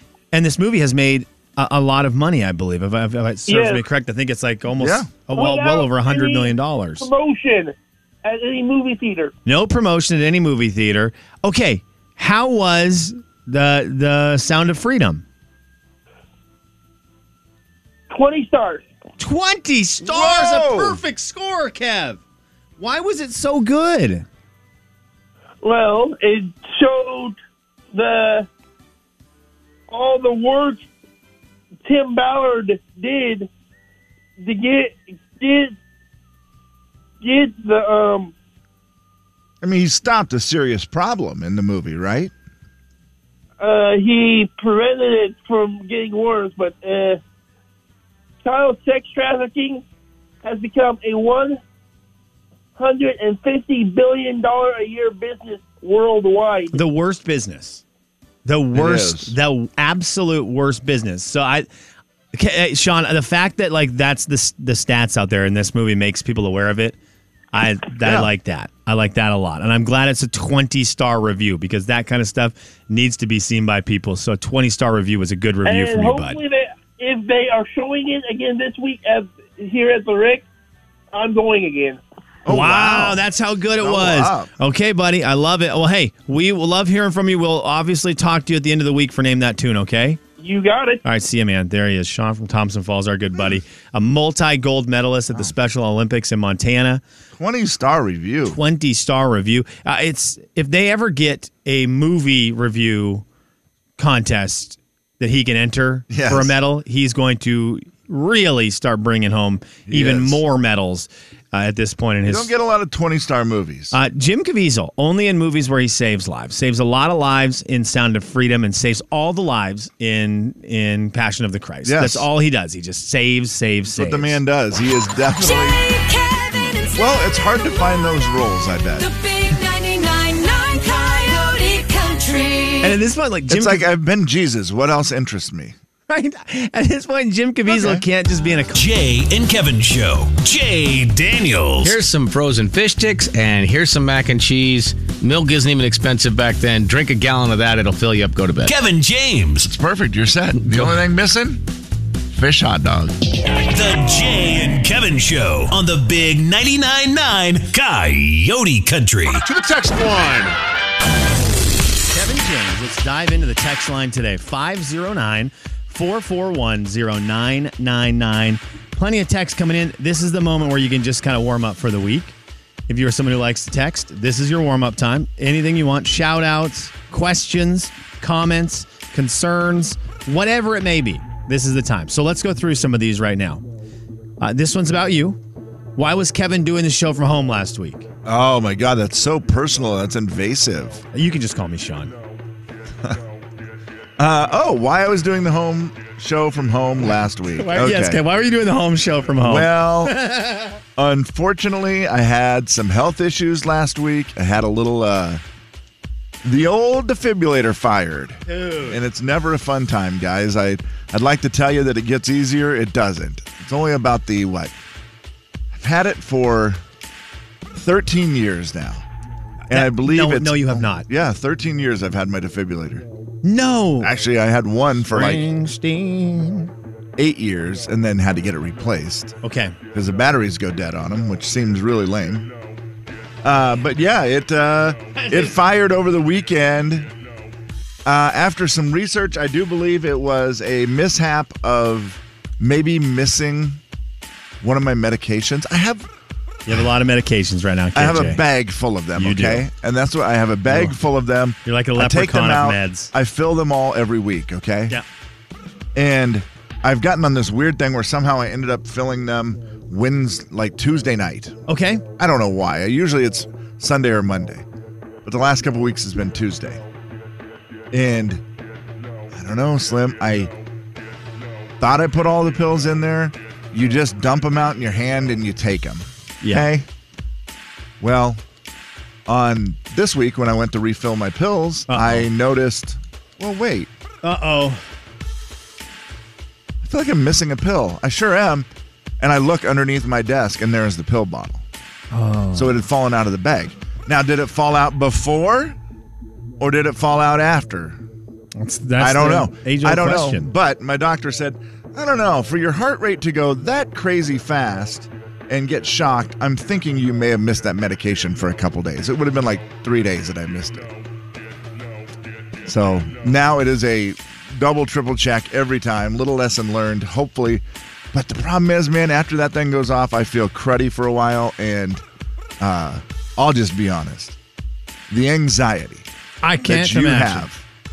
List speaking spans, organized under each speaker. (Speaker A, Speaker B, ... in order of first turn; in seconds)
Speaker A: 0.3-7.1, 9.4-15.2, 19.2-22.2, 22.8-24.2, 56.7-57.8, 58.5-61.7, 62.3-67.0, 67.5-76.4, 82.5-90.2, 91.0-97.0, 98.5-103.2, 104.0-112.5, 113.9-124.4, 132.8-133.9, 136.1-138.8, 162.1-172.3, 172.9-183.6, 184.4-185.4, 186.0-188.1, 191.1-192.2, 197.6-200.8, 208.5-209.0, 219.7-221.1, 223.4-224.1, 225.1-226.7, 229.4-229.8, 235.2-235.6, 246.7-248.4, 249.2-249.7, 250.7-250.9, 251.7-253.1, 261.7-262.0, 276.4-276.7, 281.9-282.3, 284.2-284.8, 292.1-292.8, 298.6-300.5, 326.4-327.5
Speaker B: 3.5-3.8, 5.3-9.3, 18.1-18.9, 25.6-27.4, 27.9-28.5, 29.9-30.9, 31.9-33.5, 34.4-35.8, 37.2-38.3, 43.6-47.2, 48.4-49.8, 50.4-51.6, 52.8-56.8, 75.7-80.5, 81.1-82.0, 90.4-91.0
Speaker C: 4.8-5.1, 20.0-21.0, 39.6-42.3, 58.7-59.4, 68.0-68.3, 82.5-83.2, 83.8-84.5, 93.3-93.6, 97.3-98.6, 106.1-106.5, 109.9-110.4, 112.3-114.0, 121.8-122.3, 123.9-125.8, 127.0-129.1, 133.5-135.8, 137.7-138.0, 149.6-151.6, 152.3-153.2, 159.5-160.2, 188.2-191.0, 194.2-198.2, 199.4-200.2, 201.0-205.4, 206.4-214.7, 215.7-216.8, 217.7-219.1, 219.7-223.1, 224.0-225.5, 227.2-229.3, 229.9-232.5, 233.4-237.1, 238.1-243.8, 244.6-246.1, 247.9-255.0, 255.9-261.6, 262.2-264.6, 265.2-266.8, 267.9-268.4, 269.3-270.5, 271.8-276.9, 278.0-278.4, 279.3-283.9, 286.8-288.7, 289.2-291.6, 292.5-295.8, 296.6-298.0, 299.0-310.9, 312.6-322.0, 322.6-324.4, 325.1-326.1, 326.6-327.6
Speaker D: 125.4-127.0, 129.0-133.0
Speaker E: 138.8-142.0, 148.7-149.7, 153.7-159.4
Speaker F: 141.8-148.7, 150.6-150.9